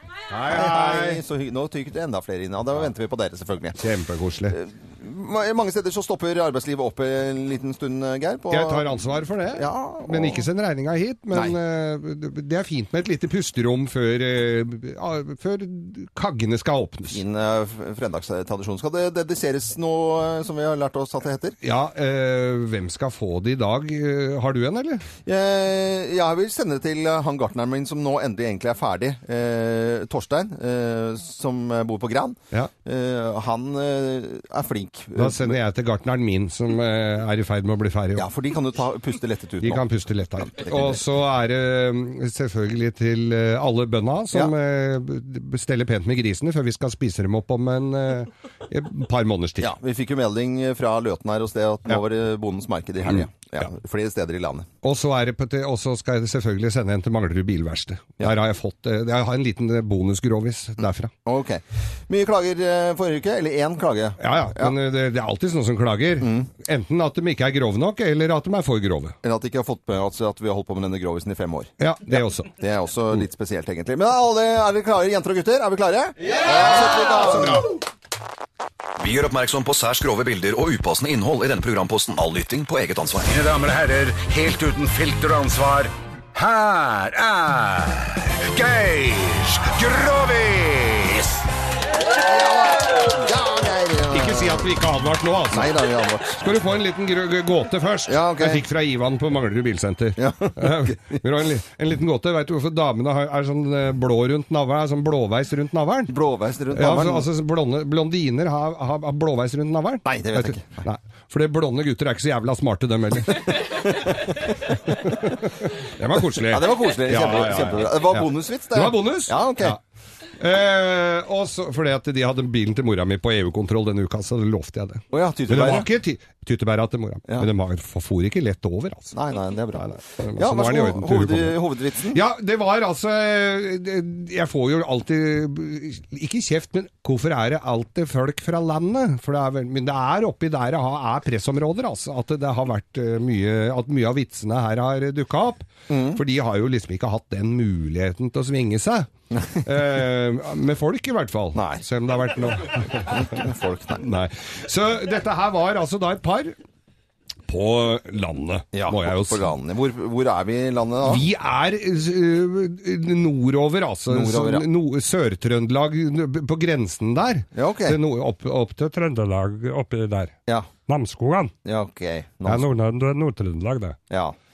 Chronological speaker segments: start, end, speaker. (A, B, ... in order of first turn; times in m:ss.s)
0:00.3-0:01.2 A
0:00.5-0:03.8 B
0:03.8-0:04.6 A
0:04.5-0:09.0 B
0:08.5-0:17.2 A
0:09.5-0:10.4 B
0:17.1-0:21.6 B
0:21.6-0:25.0 A
0:25.2-0:35.5 B
0:35.2-0:38.2 A
0:38.2-0:39.8 B
0:39.6-0:49.7 A
0:40.5-0:41.0 B
0:49.6-0:54.7 B
0:54.8-1:01.1 A
1:01.2-1:04.7 B
1:04.2-1:09.1 A
1:06.2-1:06.5 B
1:09.2-1:11.7 B
1:11.8-1:12.5 A
1:12.4-1:17.8 B
1:19.0-1:23.4 C
1:23.3-1:31.4 D
1:32.1-1:34.7 B
1:34.1-1:35.7 A
1:35.5-1:36.4 B
1:36.4-1:46.1 A
1:38.1-1:38.6 B
1:40.2-1:41.2 B
1:46.1-1:47.3 B
1:46.7-1:59.8 A
1:50.0-1:50.6 B
1:56.5-1:59.8 B
2:00.4-2:09.1 A
2:05.1-2:05.9 B
2:09.1-2:12.2 B
2:09.9-2:11.6 A
2:12.1-2:33.4 A
2:25.9-2:26.2 B
2:31.5-2:31.8 B
2:33.1-2:34.0 B
2:34.0-2:36.5 A
2:37.5-2:39.4 A
2:38.7-2:41.2 B
2:41.0-2:50.3 A
2:44.1-2:44.6 B
2:47.5-2:48.0 B
2:50.9-2:51.5 A
2:51.6-2:52.6 B
2:52.4-2:54.0 A
2:54.1-2:54.3 B